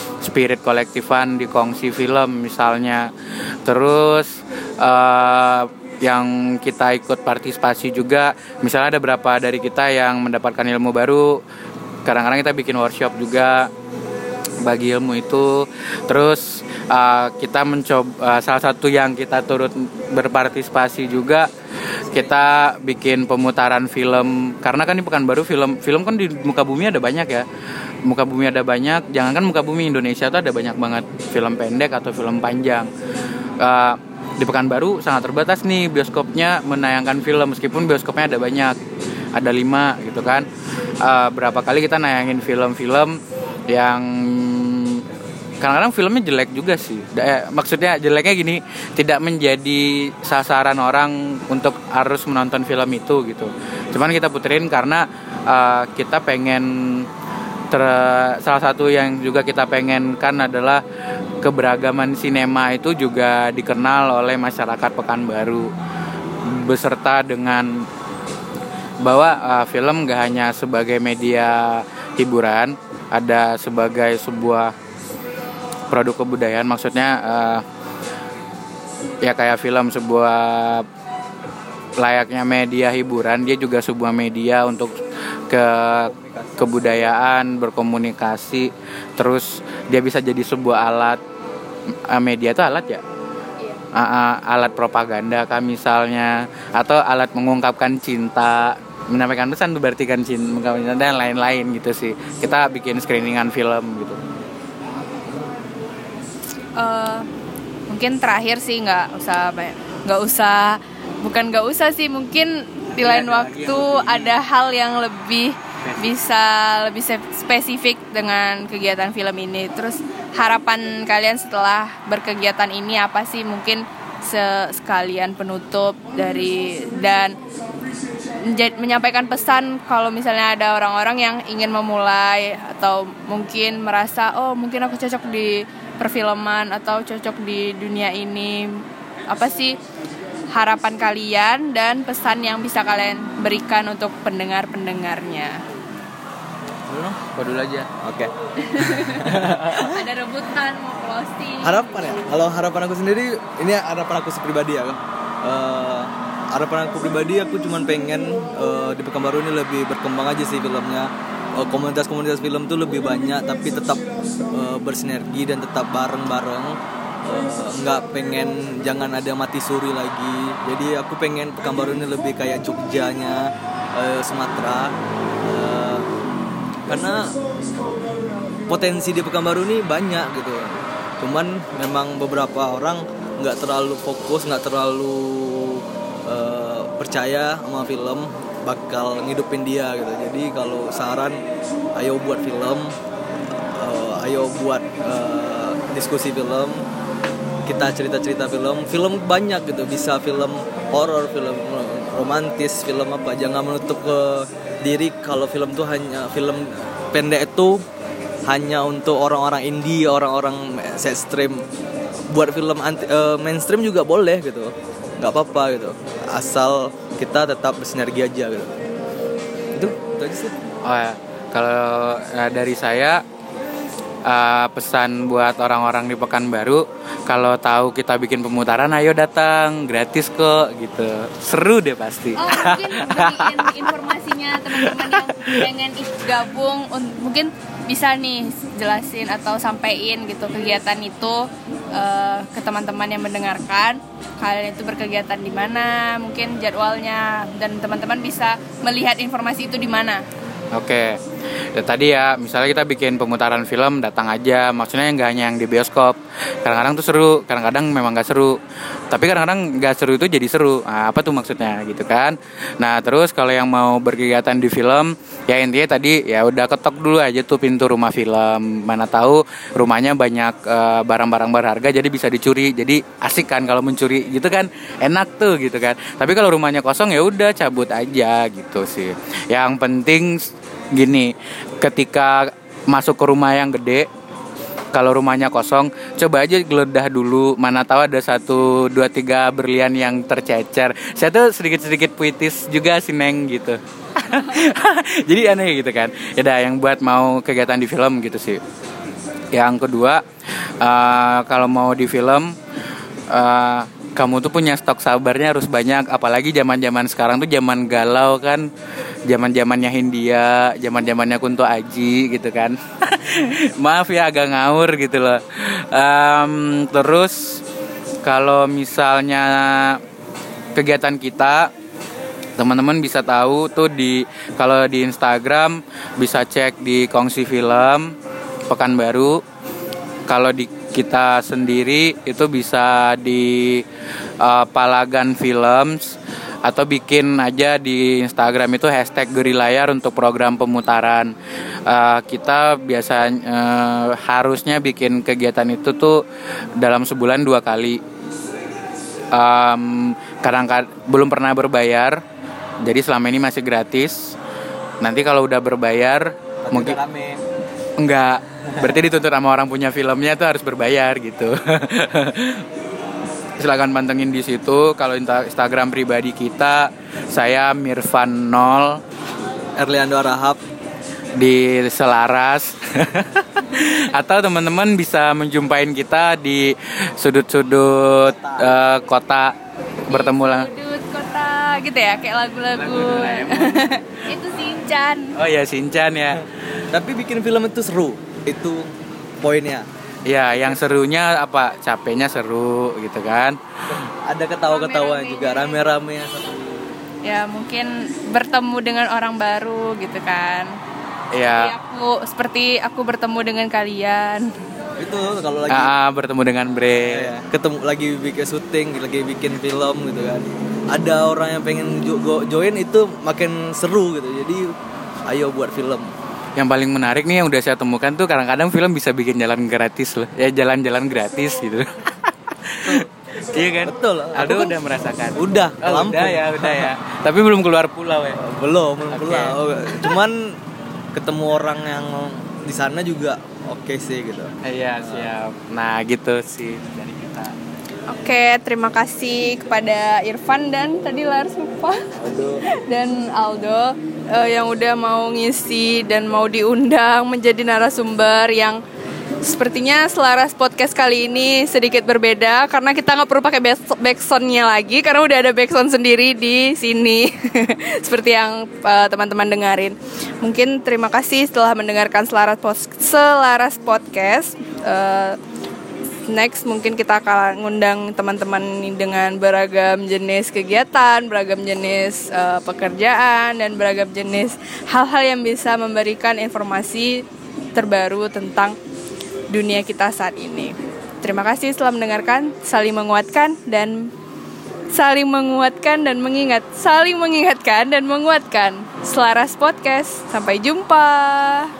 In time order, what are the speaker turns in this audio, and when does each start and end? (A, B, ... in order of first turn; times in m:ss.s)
0:00.2-0:03.1 A
0:03.6-0:11.4 A
0:12.0-0:13.7 A
0:14.6-0:21.5 A
0:22.1-0:27.5 A
0:28.1-0:32.9 A
0:33.6-0:38.8 A
0:39.3-0:40.5 A
0:41.0-0:45.0 A
0:45.6-0:57.1 A
0:57.7-1:00.8 A
1:01.4-1:05.7 A
1:06.5-1:07.9 A
1:09.0-1:14.7 A
1:15.9-1:17.6 A
1:19.2-1:20.9 A
1:22.0-1:24.9 A
1:25.5-1:31.2 A
1:26.1-1:26.6 B
1:32.1-1:33.0 A
1:33.9-1:44.2 A
1:46.8-1:47.3 C
1:47.9-2:07.4 C
1:53.0-1:54.4 A
1:55.8-1:56.1 A
2:08.4-2:19.8 C
2:20.5-2:25.6 C
2:26.9-2:27.2 B
2:27.3-2:27.9 A
2:28.0-2:30.0 B
2:28.6-2:31.9 C
2:29.3-2:29.7 A
2:31.6-2:54.9 B
2:55.5-2:56.1 B
2:56.9-2:57.4 B
2:58.7-3:11.4 B
3:12.0-3:12.9 B
3:13.8-3:16.8 B
3:17.7-3:27.8 B
3:28.5-3:31.6 B
3:32.3-3:38.7 B
3:39.7-3:40.5 B
3:40.8-3:43.2 A
3:44.3-3:53.9 A
3:52.4-4:10.2 C
3:54.8-3:55.7 A
4:10.7-4:11.2 A
4:11.7-4:18.6 A
4:19.1-4:44.1 A
4:44.9-4:58.6 A
4:59.5-5:00.2 A
5:00.8-5:02.6 A
5:03.3-5:08.7 A
5:09.3-5:17.6 A
5:18.2-5:20.0 A
5:20.8-5:21.7 A
5:22.6-5:28.2 A
5:28.7-5:29.4 A
5:30.3-5:33.8 A
5:34.4-5:41.3 A
5:41.9-5:46.2 A
5:46.8-5:48.0 A
5:49.3-5:52.2 A
5:52.8-5:54.4 A
5:55.0-5:57.0 A
5:56.6-5:57.4 B
5:58.0-6:02.7 A
6:03.6-6:09.0 A
6:09.8-6:10.6 B
6:11.4-6:19.5 A
6:18.3-6:18.8 B
6:20.1-6:25.4 C
6:20.1-6:20.7 A
6:22.8-6:24.2 A
6:25.4-6:26.4 A
6:26.9-6:29.9 B
6:30.3-6:33.6 A
6:34.2-6:36.6 B
6:34.7-6:35.9 C
6:37.2-6:40.8 C
6:41.3-6:41.7 A
6:41.5-6:44.5 C
6:45.0-6:45.9 B
6:45.7-6:47.3 A
6:46.8-6:54.7 B
6:55.3-6:56.1 B
6:56.6-7:08.4 A
7:03.8-7:04.8 B
7:05.4-7:06.9 B
7:08.4-7:10.6 B
7:09.1-7:10.2 A
7:11.2-7:15.3 B
7:14.6-7:17.5 A
7:18.1-7:22.1 C
7:22.2-7:22.6 A
7:22.7-7:28.8 C
7:29.4-7:45.4 C
7:46.3-7:57.2 C
7:57.8-7:58.8 C
7:59.5-8:04.1 C
8:04.9-8:11.7 C